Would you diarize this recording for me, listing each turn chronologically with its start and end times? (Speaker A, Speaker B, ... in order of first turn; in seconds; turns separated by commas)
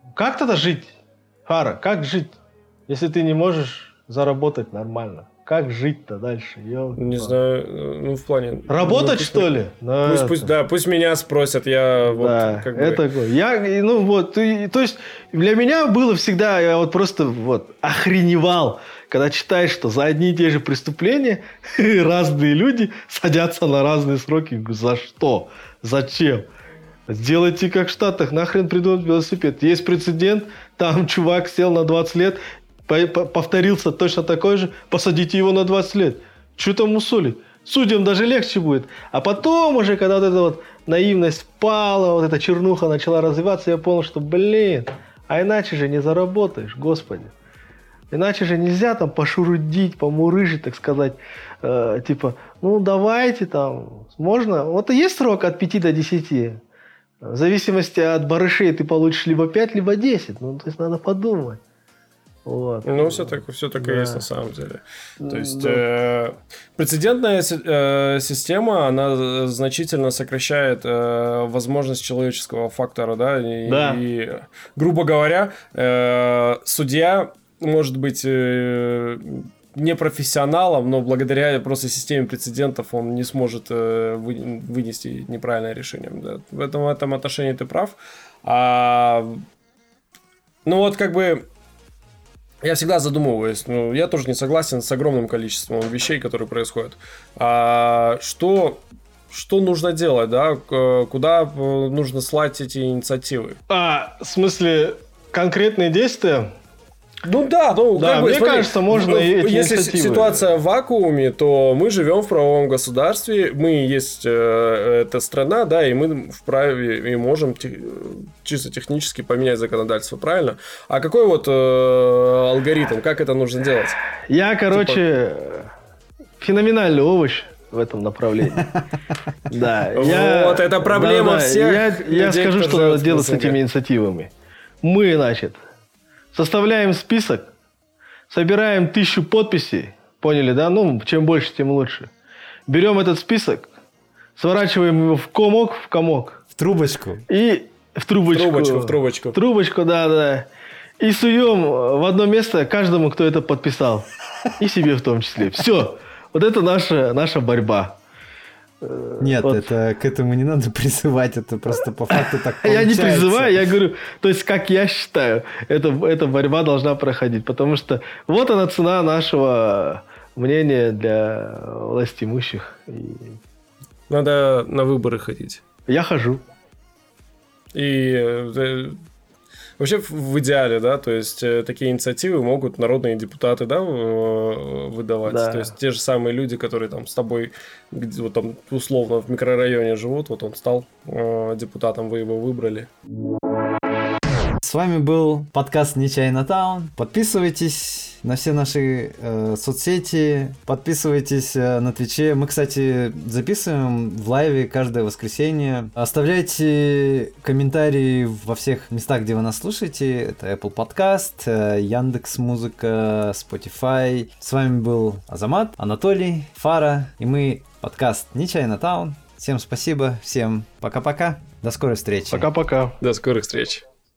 Speaker A: 0.1-7.3, Speaker B: 7.0-9.5, Speaker A: 8.7-10.5, Speaker B: 10.0-13.0, Speaker A: 12.1-26.5, Speaker A: 27.1-47.3, Speaker A: 48.1-56.6, Speaker A: 57.2-61.6, Speaker A: 62.5-64.2, Speaker B: 62.8-89.4, Speaker A: 65.2-65.8, Speaker A: 73.7-74.0, Speaker B: 90.6-91.5, Speaker B: 92.6-103.6, Speaker A: 103.7-106.5, Speaker B: 107.2-124.0, Speaker A: 107.9-110.5, Speaker A: 124.3-125.7, Speaker B: 124.7-125.0, Speaker A: 126.4-128.7, Speaker A: 129.4-134.3, Speaker B: 129.9-133.6, Speaker A: 134.8-135.6, Speaker A: 136.3-137.5, Speaker A: 138.3-142.1, Speaker A: 142.7-143.7, Speaker A: 144.4-146.4, Speaker C: 146.5-147.2, Speaker A: 147.3-150.5, Speaker B: 148.3-149.3, Speaker A: 151.0-154.1, Speaker A: 154.6-158.0, Speaker A: 158.8-159.7, Speaker C: 159.2-163.6, Speaker A: 162.2-173.4, Speaker B: 174.1-175.6, Speaker A: 175.9-176.4, Speaker B: 177.7-179.0, Speaker B: 179.8-192.9, Speaker A: 185.2-185.7, Speaker C: 194.6-222.5, Speaker A: 222.3-223.0, Speaker B: 223.0-223.8